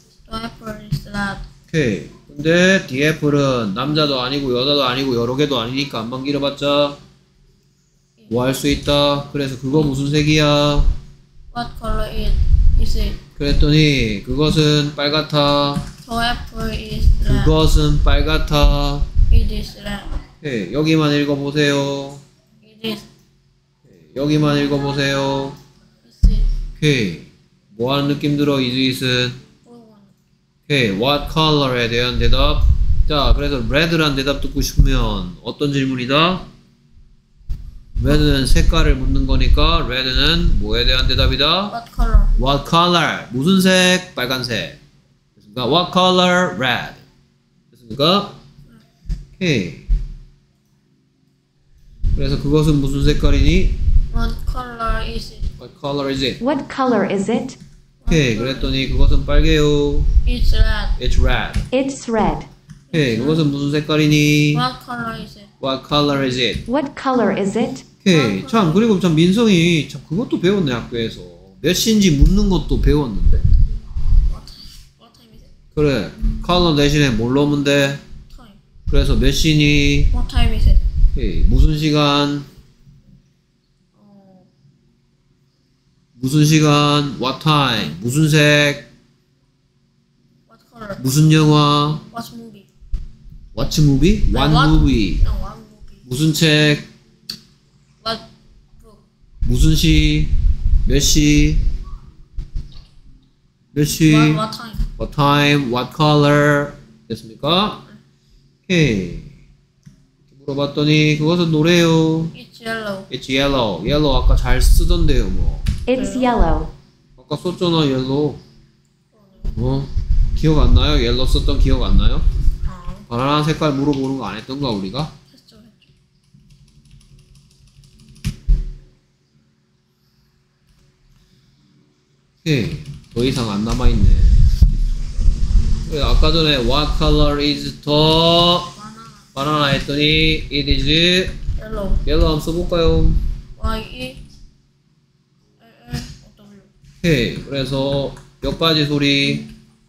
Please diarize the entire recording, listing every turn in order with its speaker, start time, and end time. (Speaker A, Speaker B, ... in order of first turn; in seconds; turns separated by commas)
Speaker A: 0.2-1.4, Speaker B: 1.7-7.0, Speaker A: 8.2-8.4, Speaker B: 8.3-10.9, Speaker A: 11.5-13.2, Speaker B: 13.4-15.9, Speaker A: 16.0-17.5, Speaker B: 17.2-19.1, Speaker A: 19.3-20.2, Speaker B: 20.4-22.2, Speaker A: 22.6-23.1, Speaker B: 23.9-25.6, Speaker A: 26.0-26.5, Speaker B: 26.8-29.4, Speaker A: 29.6-30.1, Speaker B: 30.7-36.5, Speaker B: 38.0-41.7, Speaker A: 41.7-42.4, Speaker B: 42.4-44.8, Speaker B: 45.4-47.0, Speaker B: 47.7-48.4, Speaker B: 49.4-49.9, Speaker B: 52.1-53.8, Speaker A: 54.1-55.5, Speaker B: 55.6-56.4, Speaker C: 56.4-57.6, Speaker A: 58.0-58.7, Speaker B: 58.1-60.1, Speaker A: 60.2-61.0, Speaker B: 61.0-61.6, Speaker C: 61.7-62.5, Speaker A: 62.9-63.5, Speaker B: 62.9-64.6, Speaker A: 64.5-65.5, Speaker B: 65.6-66.6, Speaker C: 66.7-67.8, Speaker B: 68.0-73.4, Speaker A: 68.1-68.9, Speaker A: 74.3-75.5, Speaker B: 75.7-78.0, Speaker A: 78.3-78.6, Speaker B: 78.9-80.1, Speaker A: 80.1-80.8, Speaker B: 81.1-82.5, Speaker A: 84.0-84.5, Speaker B: 86.2-88.9, Speaker A: 90.5-91.0, Speaker B: 91.0-92.0, Speaker A: 92.1-92.7, Speaker B: 93.5-95.2, Speaker A: 94.3-96.0, Speaker B: 96.0-96.9, Speaker A: 98.0-98.2, Speaker A: 98.8-99.0, Speaker B: 99.4-100.3, Speaker B: 100.8-101.6, Speaker B: 103.7-104.4, Speaker A: 104.0-104.9, Speaker B: 105.0-107.8, Speaker B: 108.7-109.3, Speaker B: 110.3-112.3, Speaker A: 112.3-113.1, Speaker B: 113.1-115.7, Speaker C: 115.9-116.7, Speaker A: 115.9-116.6, Speaker B: 117.2-118.4, Speaker A: 119.1-119.6, Speaker B: 119.6-122.2, Speaker A: 122.6-123.1, Speaker B: 123.1-125.1, Speaker A: 125.3-125.9, Speaker B: 132.4-134.6, Speaker B: 135.8-138.7, Speaker A: 138.7-139.3, Speaker B: 139.3-141.4, Speaker A: 141.6-142.0, Speaker B: 142.0-143.2, Speaker A: 143.6-144.2, Speaker A: 145.6-146.7, Speaker B: 147.0-149.4